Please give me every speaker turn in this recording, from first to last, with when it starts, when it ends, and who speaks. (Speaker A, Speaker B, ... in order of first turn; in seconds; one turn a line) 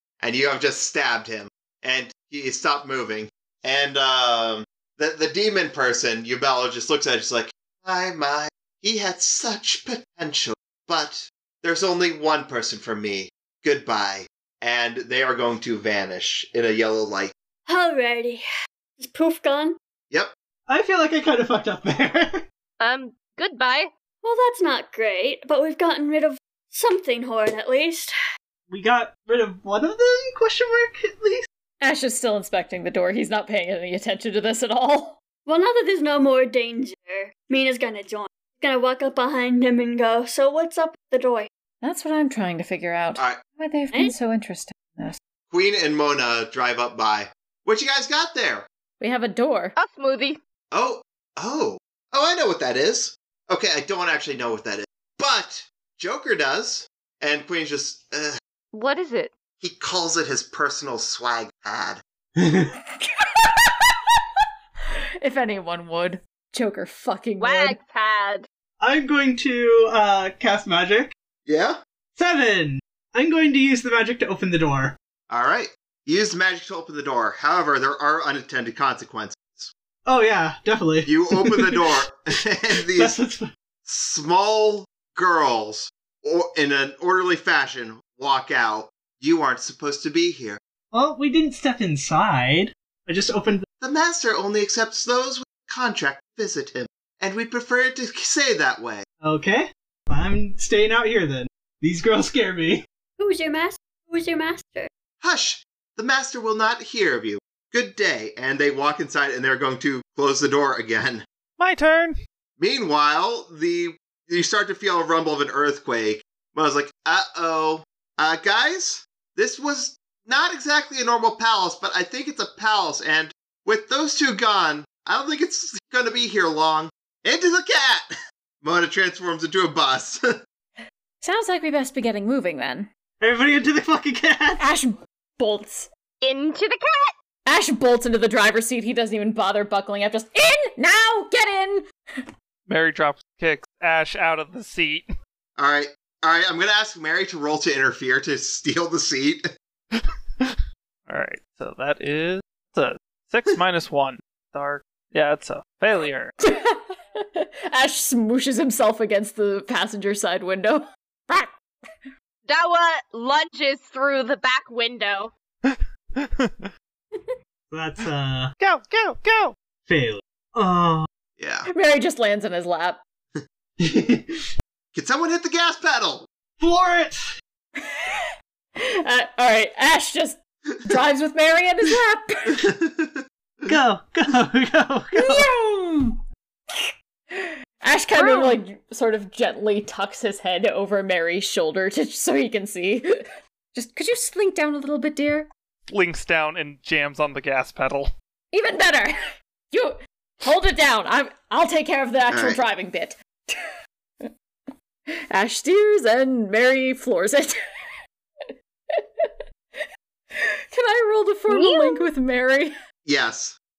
Speaker A: 0.2-17.3
Speaker B: 17.7-18.4
Speaker B: 19.0-19.8
Speaker C: 20.7-22.4
Speaker D: 22.8-23.9
Speaker B: 24.2-28.1
Speaker C: 28.7-31.5
Speaker E: 31.8-35.1
Speaker B: 35.5-41.5
Speaker E: 41.8-45.2
Speaker A: 45.5-48.7
Speaker E: 49.0-49.7
Speaker D: 49.8-50.4
Speaker A: 50.7-58.4
Speaker D: 58.7-59.3
Speaker A: 59.6-62.0
Speaker C: 62.4-62.7
Speaker E: 63.0-63.9
Speaker E: 65.2-67.8
Speaker D: 67.4-68.5
Speaker C: 68.8-71.2
Speaker A: 71.5-71.8
Speaker C: 72.2-75.0
Speaker A: 75.3-79.7
Speaker C: 80.1-81.9
Speaker A: 81.0-83.2
Speaker C: 82.9-83.5
Speaker A: 83.8-90.6
Speaker C: 90.9-93.7
Speaker A: 93.8-99.0
Speaker C: 99.2-102.8
Speaker B: 103.2-104.9
Speaker A: 105.2-111.2
Speaker F: 111.6-112.2
Speaker A: 112.6-128.1
Speaker A: 128.6-130.2
Speaker E: 131.2-132.9
Speaker C: 133.2-134.6
Speaker E: 134.6-135.9
Speaker D: 136.2-137.1
Speaker E: 137.5-141.9
Speaker F: 142.7-145.1
Speaker A: 145.6-149.5
Speaker F: 150.0-156.3
Speaker E: 156.4-161.5
Speaker D: 162.5-165.3
Speaker F: 165.7-166.7
Speaker C: 167.7-168.5
Speaker F: 168.6-169.6
Speaker C: 169.9-171.1
Speaker A: 171.4-171.7
Speaker E: 171.7-173.0
Speaker C: 173.8-174.4
Speaker A: 174.9-176.3
Speaker C: 176.6-177.2
Speaker E: 179.0-182.6
Speaker A: 182.5-183.7
Speaker C: 183.7-185.5
Speaker E: 185.2-186.2
Speaker E: 186.8-193.1
Speaker D: 188.2-188.6
Speaker E: 193.7-195.5
Speaker F: 195.9-198.1
Speaker E: 198.5-199.1
Speaker E: 199.7-203.2
Speaker A: 202.3-202.6
Speaker E: 205.3-207.5
Speaker E: 209.0-209.3
Speaker E: 210.7-212.7
Speaker D: 211.5-212.1
Speaker A: 213.1-213.6